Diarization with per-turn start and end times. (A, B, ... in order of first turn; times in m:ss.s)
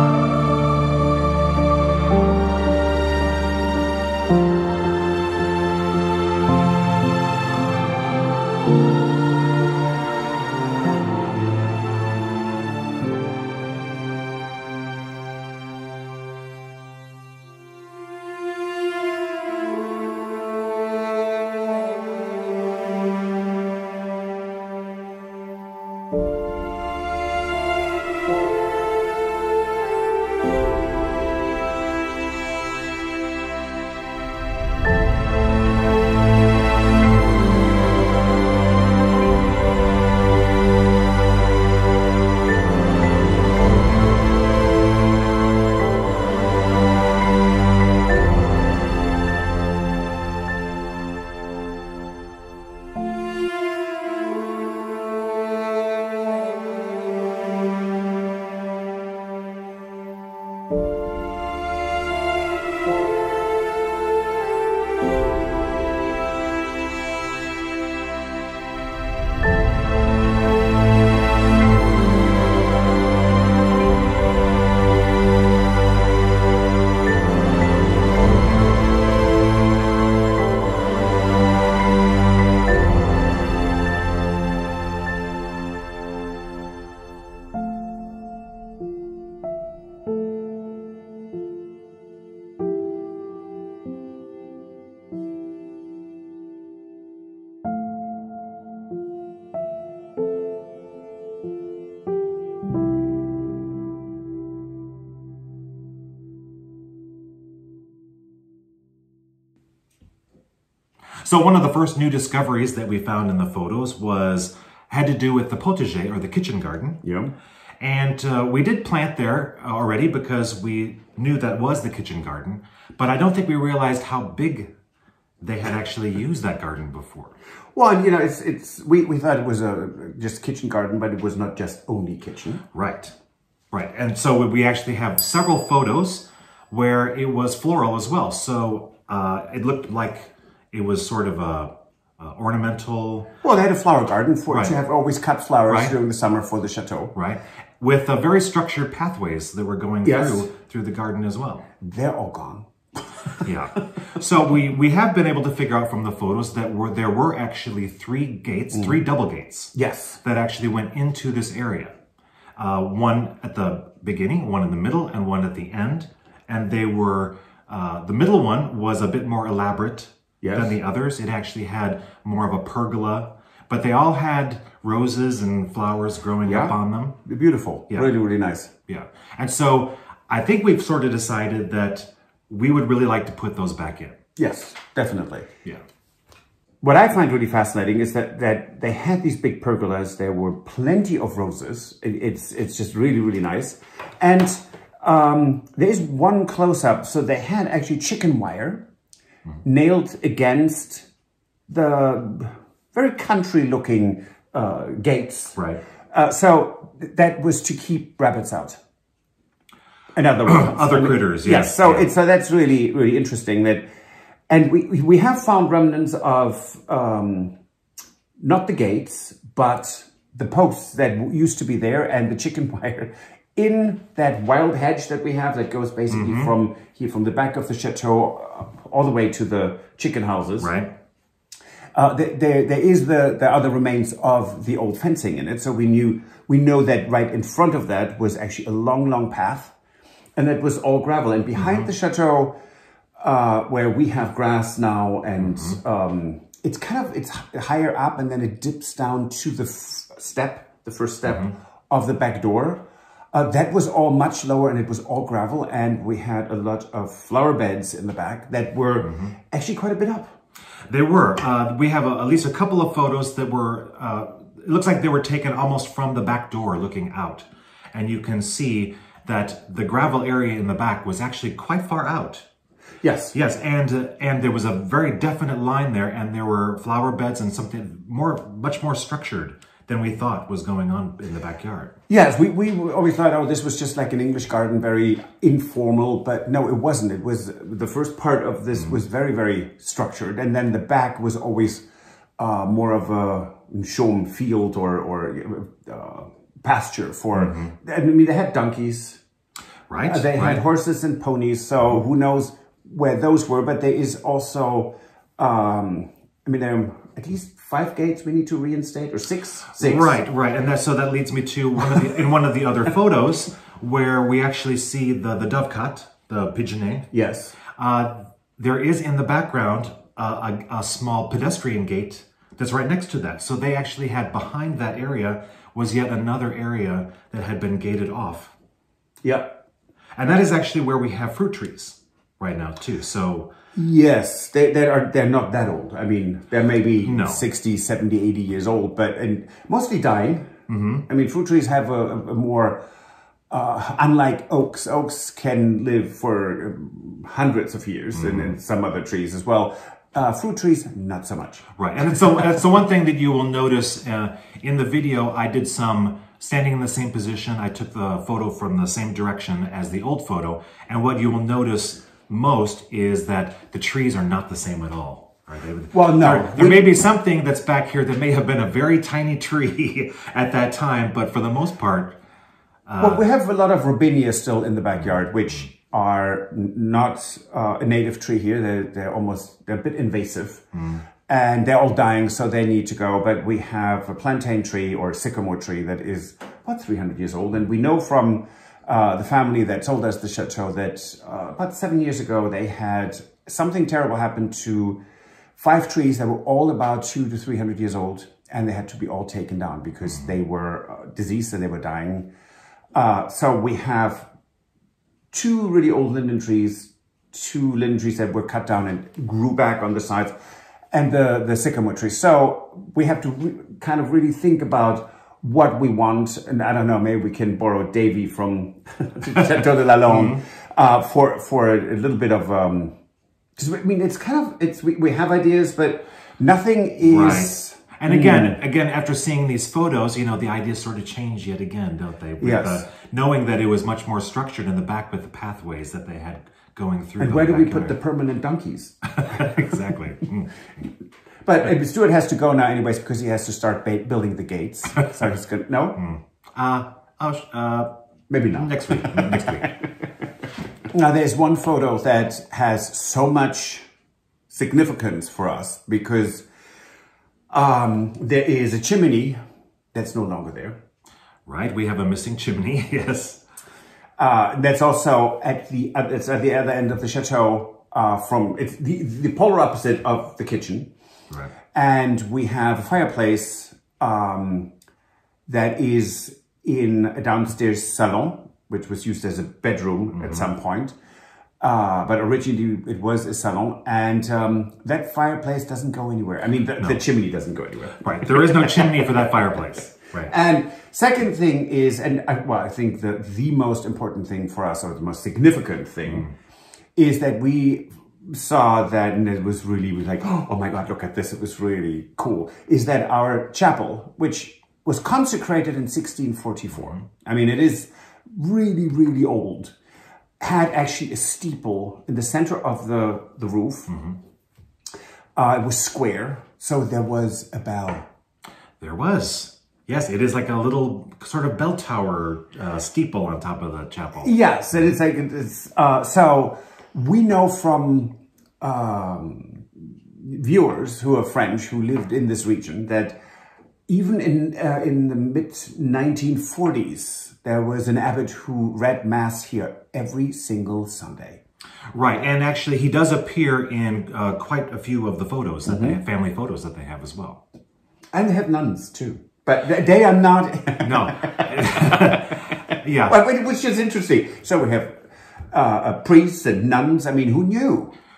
1:51.2-1:57.0 A
1:57.0-1:57.3 B
1:57.8-2:04.7 A
2:05.4-2:07.4 A
2:07.7-2:12.6 B
2:12.7-2:13.1 A
2:13.7-2:23.3 A
2:23.4-2:27.1 B
2:24.5-2:24.8 A
2:25.7-2:25.9 A
2:27.1-2:31.7 A
2:30.0-2:30.5 B
2:31.8-2:33.4 B
2:33.4-2:41.9 A
2:38.7-2:39.0 B
2:39.7-2:40.2 B
2:42.6-2:57.2 A
2:50.4-2:50.8 B
2:56.4-2:58.7 B
2:58.9-3:04.2 A
3:04.4-3:05.5 B
3:06.8-3:18.8 B
3:19.6-3:21.1 B
3:21.7-3:25.6 B
3:25.6-3:25.8 A
3:26.1-3:28.8 B
3:30.1-3:33.8 B
3:30.4-3:32.1 A
3:34.5-3:37.5 B
3:38.4-3:50.7 B
3:46.1-3:46.5 A
3:50.6-3:50.9 A
3:51.9-3:59.7 B
4:00.4-4:02.6 B
4:01.6-4:01.9 A
4:03.2-4:20.3 B
4:20.9-4:32.4 A
4:33.0-4:33.4 B
4:33.3-4:41.9 A
4:42.1-4:51.8 B
4:52.4-4:59.2 B
4:57.4-4:57.7 A
4:59.9-5:00.6 A
5:00.0-5:10.2 B
5:09.7-5:17.1 A
5:17.1-5:17.5 B
5:17.8-5:28.5 A
5:29.2-5:29.5 B
5:30.2-5:33.5 A
5:33.7-5:40.5 B
5:37.0-5:37.4 A
5:40.7-5:41.0 A
5:41.1-5:42.8 B
5:43.5-5:51.6 B
5:48.1-5:48.5 A
5:51.8-6:12.2 A
6:05.9-6:06.9 B
6:12.9-6:13.2 A
6:13.0-6:20.6 B
6:20.7-6:21.0 A
6:21.3-6:35.0 B
6:35.6-6:42.3 B
6:42.9-6:44.3 B
6:45.3-6:50.3 B
6:50.9-7:02.9 B
7:00.1-7:00.4 A
7:03.6-7:08.6 B
7:07.0-7:18.0 A
7:12.4-7:12.8 B
7:17.2-7:19.8 B
7:19.1-7:20.5 A
7:21.4-7:26.0 B
7:26.0-7:27.9 A
7:28.3-7:29.9 B
7:28.5-7:29.7 A
7:30.9-7:33.8 B
7:34.5-7:36.4 B
7:37.5-7:39.4 B
7:39.9-7:40.8 B
7:41.4-7:43.4 A
7:44.2-7:50.9 B
7:51.7-7:54.7 B
7:55.5-8:00.9 B
8:00.1-8:00.5 A
8:01.6-8:09.0 B
8:08.0-8:10.3 A
8:10.2-8:16.3 B
8:17.0-8:29.7 B
8:30.4-8:33.9 B
8:33.9-8:34.2 A
8:35.4-8:38.1 B
8:38.8-8:44.4 A
8:44.2-8:53.2 B
8:53.9-9:01.4 B
9:01.9-9:07.4 A
9:05.7-9:06.0 B
9:08.1-9:17.9 B
9:10.8-9:13.1 A